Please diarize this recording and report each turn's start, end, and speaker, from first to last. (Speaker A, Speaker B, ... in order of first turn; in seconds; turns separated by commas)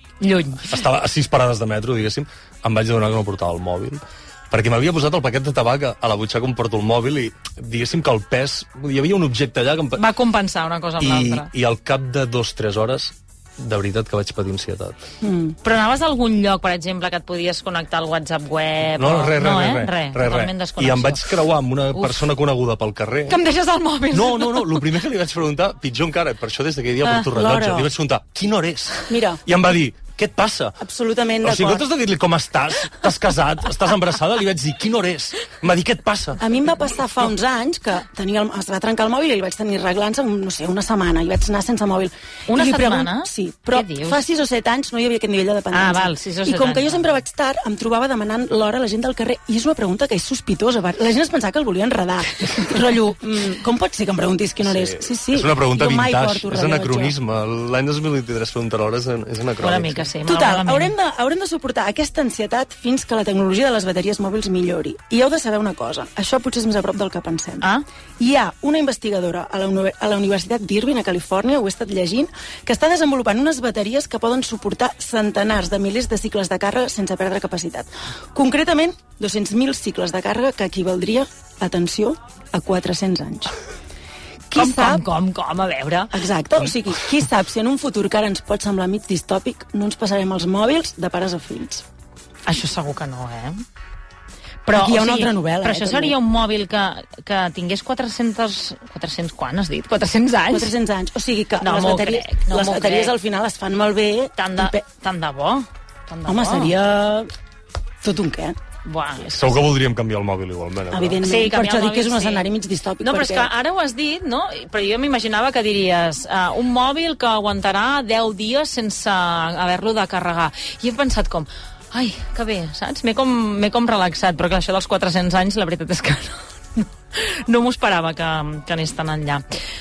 Speaker A: 0.2-0.8, Speaker B: 0.6-10.0, Speaker A: 10.0-11.5, Speaker B: 11.0-15.1, Speaker C: 15.2-15.6, Speaker A: 15.6-21.4, Speaker B: 19.0-23.4, Speaker A: 21.9-22.2, Speaker A: 23.3-24.9, Speaker B: 24.1-30.8, Speaker C: 27.3-27.9, Speaker C: 29.1-29.4, Speaker C: 30.8-31.8, Speaker B: 31.4-36.4, Speaker C: 36.4-57.2, Speaker A: 42.5-44.2, Speaker A: 45.7-47.2, Speaker B: 54.6-60.1, Speaker A: 59.6-60.9, Speaker C: 60.2-83.6, Speaker C: 84.5-85.1, Speaker A: 84.5-86.1, Speaker C: 86.1-91.8, Speaker A: 92.5-93.6, Speaker A: 94.7-100.7, Speaker C: 94.7-96.2, Speaker C: 100.5-104.8, Speaker A: 101.6-103.1, Speaker A: 104.4-106.7, Speaker C: 106.3-107.3, Speaker C: 108.0-108.6, Speaker A: 108.8-109.7, Speaker B: 109.2-111.2, Speaker C: 110.9-113.5, Speaker A: 111.2-112.5, Speaker A: 113.0-129.4